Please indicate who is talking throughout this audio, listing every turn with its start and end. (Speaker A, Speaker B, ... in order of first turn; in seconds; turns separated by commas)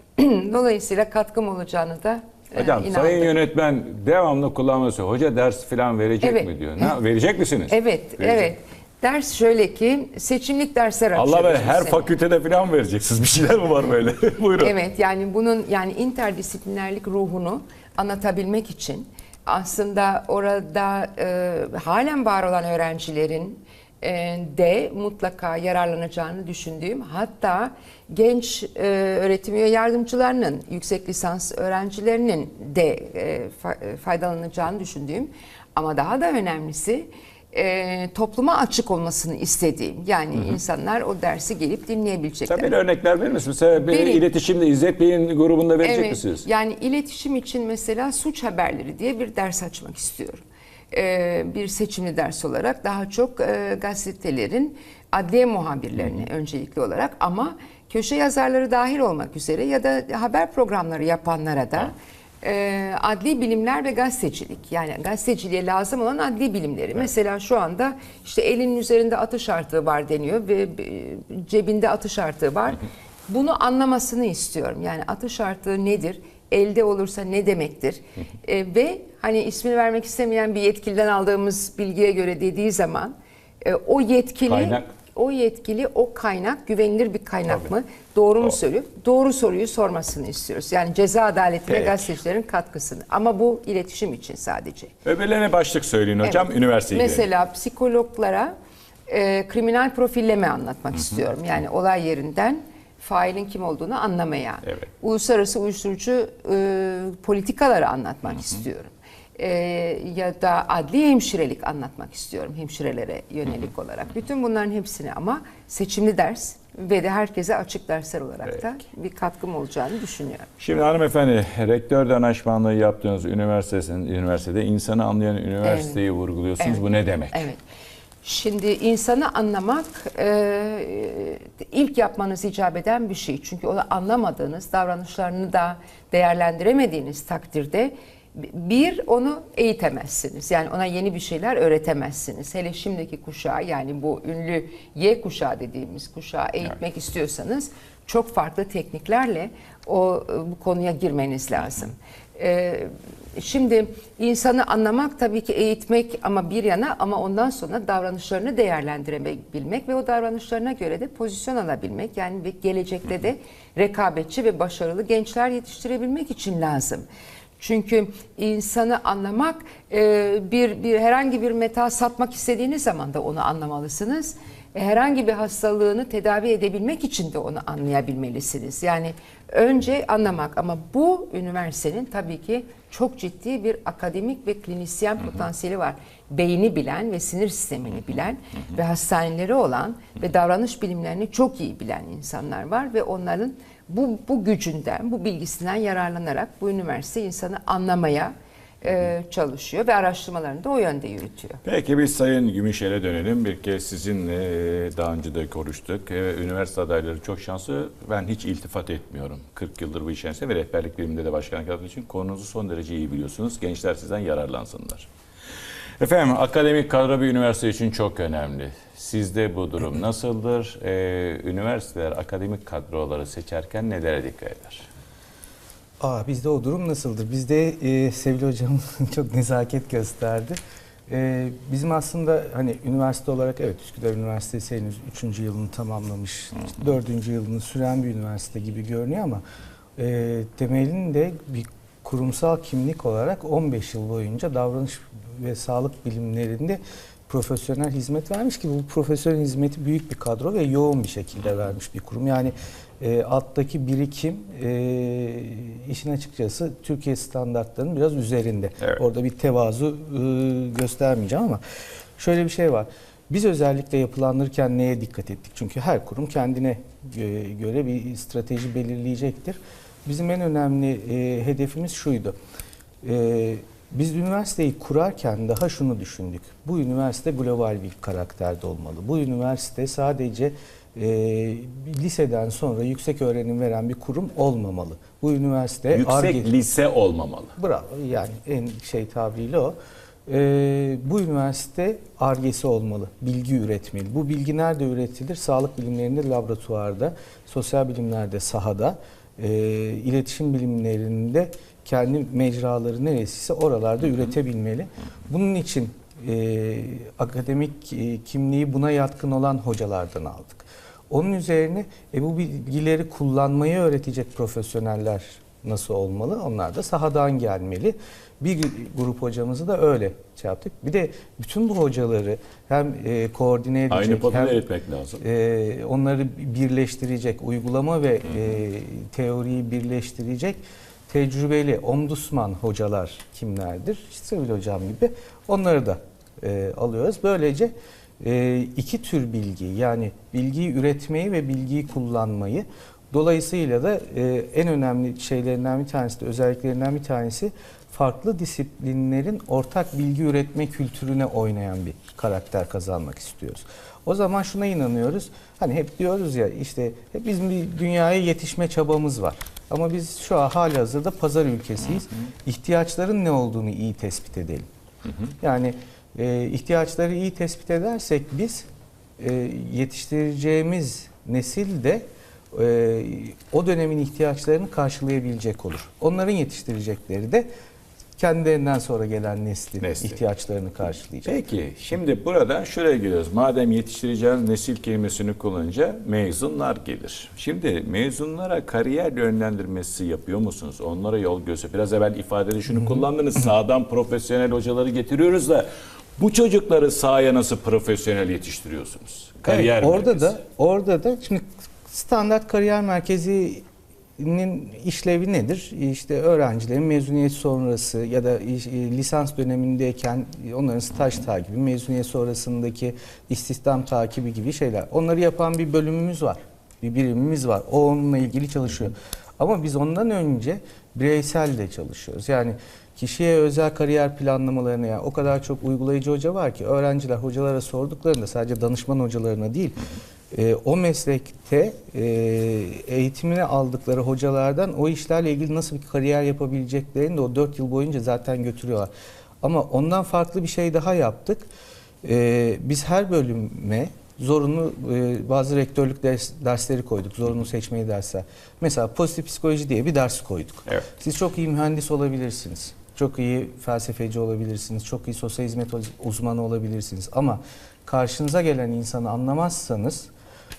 Speaker A: 0.2-3.3, Speaker B: 2.5-8.5, Speaker A: 6.2-6.9, Speaker A: 7.7-12.1, Speaker B: 11.1-14.8, Speaker A: 14.5-42.8, Speaker B: 42.5-46.5, Speaker A: 43.7-44.2, Speaker A: 45.8-94.9, Speaker B: 84.5-84.9, Speaker B: 91.7-92.0, Speaker B: 95.0-97.3, Speaker A: 96.2-98.5, Speaker A: 99.1-120.5, Speaker B: 120.6-127.5, Speaker A: 125.6-126.0, Speaker A: 126.6-127.6, Speaker A: 128.2-167.1, Speaker A: 167.6-201.6, Speaker B: 201.6-215.1, Speaker B: 216.0-224.9, Speaker C: 226.0-230.6, Speaker C: 231.1-239.4, Speaker C: 240.0-261.6, Speaker C: 262.2-272.4, Speaker C: 273.0-286.5, Speaker B: 285.9-287.5, Speaker C: 287.6-289.8, Speaker C: 290.3-324.6, Speaker B: 323.9-325.2, Speaker C: 325.2-364.7, Speaker C: 365.4-368.7, Speaker C: 369.2-377.5, Speaker C: 378.2-381.3, Speaker B: 379.8-380.2, Speaker B: 381.2-395.7, Speaker B: 396.2-400.4, Speaker C: 399.4-403.6, Speaker C: 404.2-438.9, Speaker C: 439.4-441.5, Speaker C: 442.0-460.1